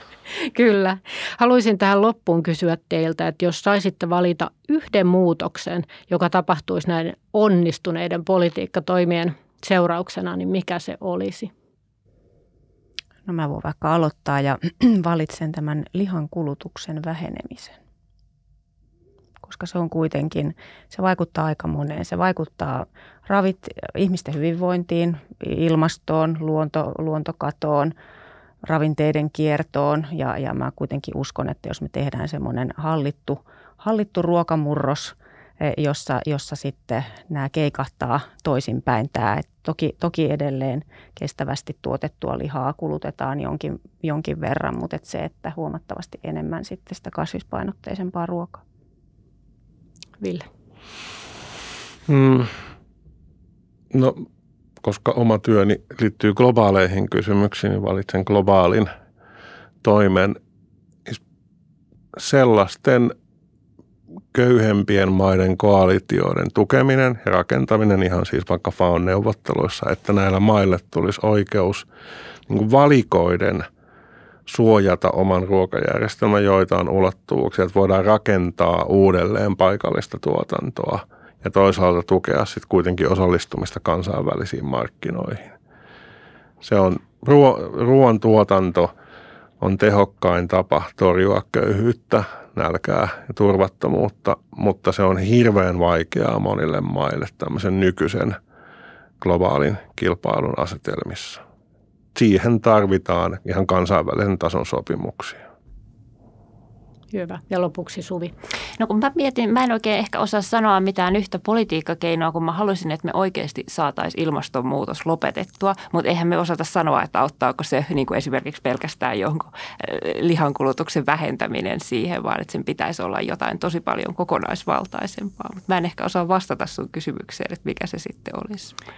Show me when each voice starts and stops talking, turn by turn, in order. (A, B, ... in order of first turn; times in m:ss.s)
0:00.4-0:11.5 A
0:13.2-0:17.8 B
0:19.4-0:27.9 B
0:28.6-0:48.6 B
0:50.2-0:50.4 A
0:52.1-0:52.5 C
0:53.9-0:54.2 C
0:54.8-0:58.9 C
0:59.8-1:00.4 C
1:02.2-1:03.1 C
1:04.3-1:11.8 C
1:12.5-1:13.7 C
1:14.5-1:25.5 C
1:26.6-1:28.9 C
1:29.6-1:38.4 C
1:39.2-1:41.4 C
1:42.1-1:45.4 C
1:47.1-1:48.3 A
1:48.8-2:08.7 D